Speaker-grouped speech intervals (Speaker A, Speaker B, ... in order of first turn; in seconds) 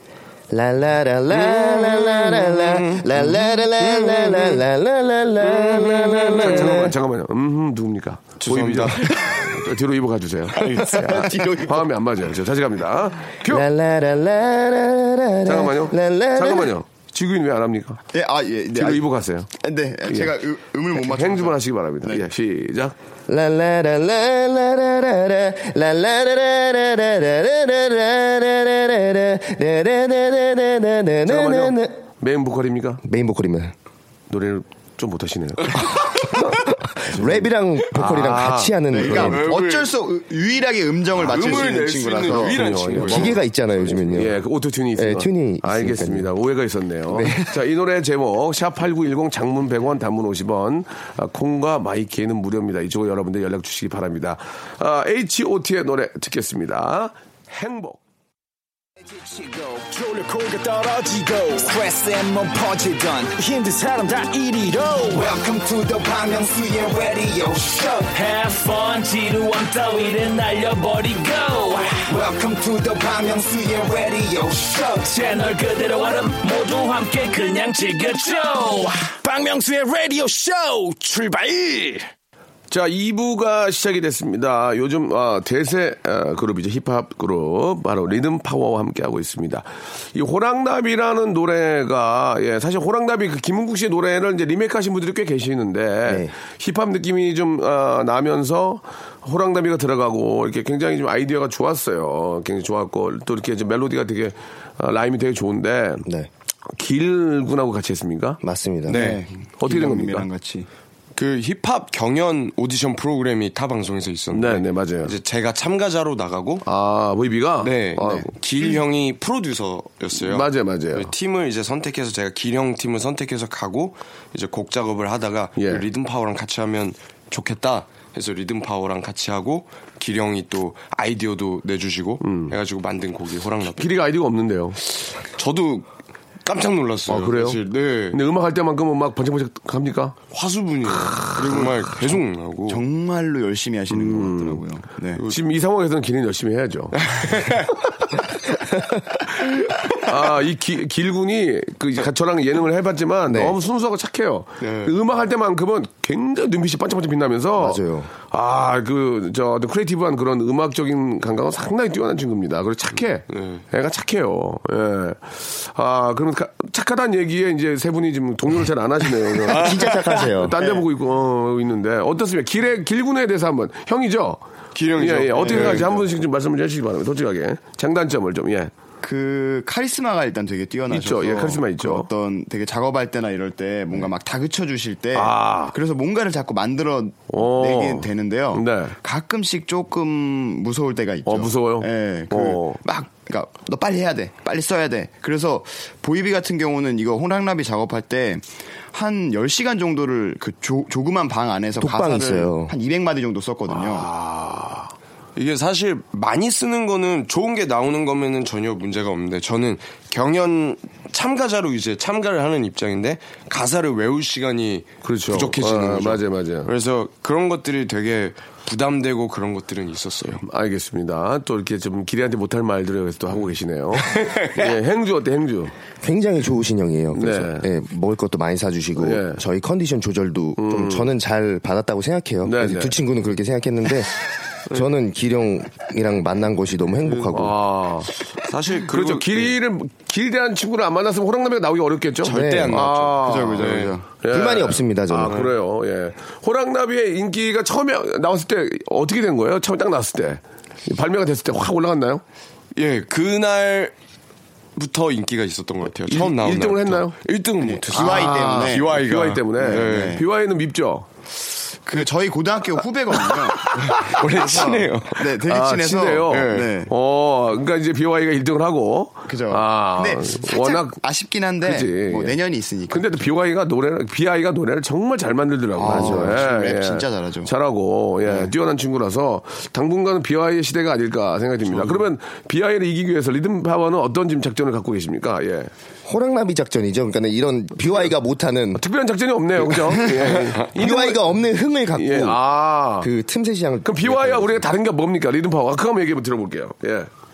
Speaker A: 0.5-6.9, 10.6-11.7, 13.4-16.7, 23.3-32.0, 33.0-33.7, 35.9-39.5, 43.0-44.4, 45.0-46.3, 47.1-47.6, 96.0-96.3, 108.4-109.1, 153.3-153.6, 157.6-158.1, 169.4-170.6, 201.8-202.7, 226.0-237.6, 242.3-242.9, 244.3-245.5, 275.8-276.4, 286.1-288.8, 290.2-292.4, 293.0-294.6
Speaker B: 1.3-4.6, 5.4-6.9, 8.4-9.2, 10.6-11.4, 39.1-39.9, 41.1-44.2, 108.9-109.2, 111.1-116.6, 117.6-133.9, 135.2-135.9, 136.4-138.2, 140.3-142.8, 147.0-147.8, 154.6-154.9, 163.3-163.6, 169.4-170.3, 174.7-176.0, 205.3-220.4, 224.0-224.7, 237.0-237.3, 238.3-239.5, 242.2-243.9, 252.8-253.9, 254.8-260.2, 263.7-265.3, 266.3-266.7
Speaker C: 6.4-13.7, 15.4-18.0, 18.7-19.5, 20.9-22.9, 31.2-33.0, 34.3-36.5, 37.0-39.4, 41.3-43.4, 44.1-58.0, 82.7-106.0, 106.7-108.4, 109.6-110.3, 114.3-115.1, 116.6-118.8, 120.2-121.1, 125.5-125.8, 132.2-132.6, 133.8-134.8, 137.1-140.2, 140.9-141.7, 143.9-144.6, 145.3-147.1, 149.9-174.4, 174.9-178.7, 180.9-182.1, 185.1-185.7, 187.3-188.9, 191.2-192.8, 203.7-204.9, 215.0-216.7, 220.4-225.7, 227.1-227.7, 229.0-229.4, 230.6-231.1, 232.4-233.0, 237.3-238.1, 238.9-252.2, 256.1-257.2, 257.9-261.1, 264.4-264.7, 265.4-271.0, 271.6-272.3, 272.9-285.7, 288.7-291.3, 291.9-293.1, 293.8-297.1
Speaker D: 18.1-19.1, 19.6-22.2, 38.9-42.9, 108.9-110.7, 141.4-142.1, 142.7-145.2, 175.5-175.8, 179.0-204.1, 243.2-244.1, 257.6-258.9, 259.6-260.2, 261.9-266.9, 269.3-273.2, 275.8-277.5, 278.2-278.5
Speaker E: 59.0-82.1